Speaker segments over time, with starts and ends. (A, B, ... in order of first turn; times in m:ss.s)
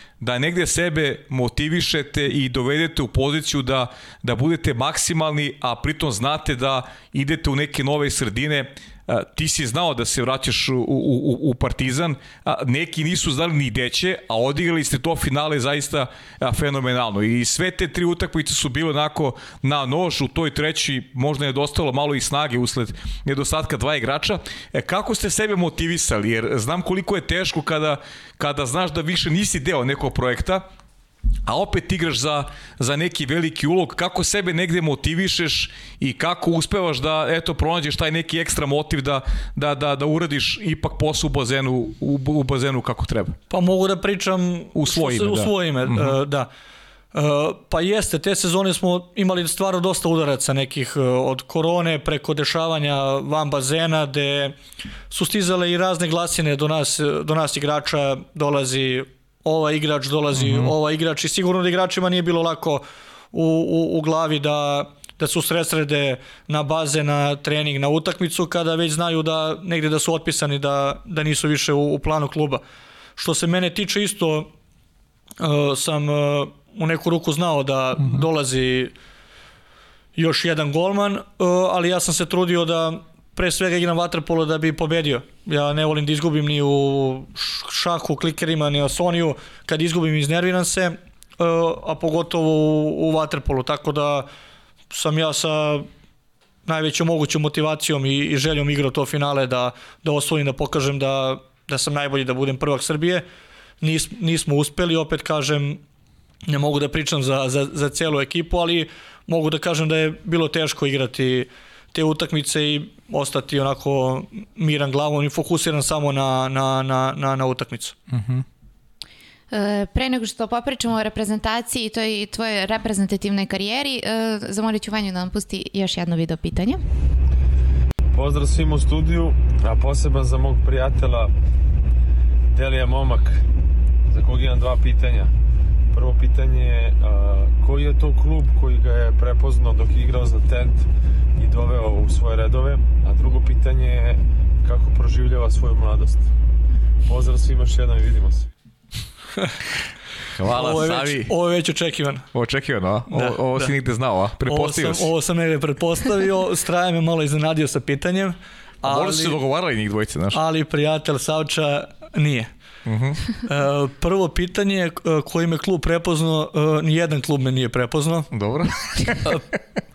0:00.2-0:30.7 A
0:31.4-0:43.4 A
0:43.5-0:46.5 B
0:44.8-0:46.2 A
0:47.1-0:54.6 B
0:55.1-1:12.6 B
1:00.4-1:00.7 A
1:13.2-1:14.5 B
1:15.4-1:18.9 B
1:20.2-1:34.3 B
1:34.9-1:35.9 B
1:36.7-1:43.2 B
1:43.8-1:45.8 B
1:46.5-1:58.0 B
1:58.1-1:58.4 A
1:59.5-2:06.8 C
2:08.1-2:11.3 D
2:12.5-2:13.4 D
2:14.1-2:15.3 D
2:15.9-2:20.9 D
2:21.4-2:26.3 D
2:27.1-2:28.5 D
2:30.4-2:31.3 A
2:30.4-2:32.3 B
2:32.3-2:35.1 A
2:33.1-2:33.8 B
2:34.4-2:39.4 B
2:38.8-2:40.4 A
2:40.3-2:42.5 B
2:42.9-2:43.2 A
2:43.4-2:48.3 B
2:48.3-2:49.6 A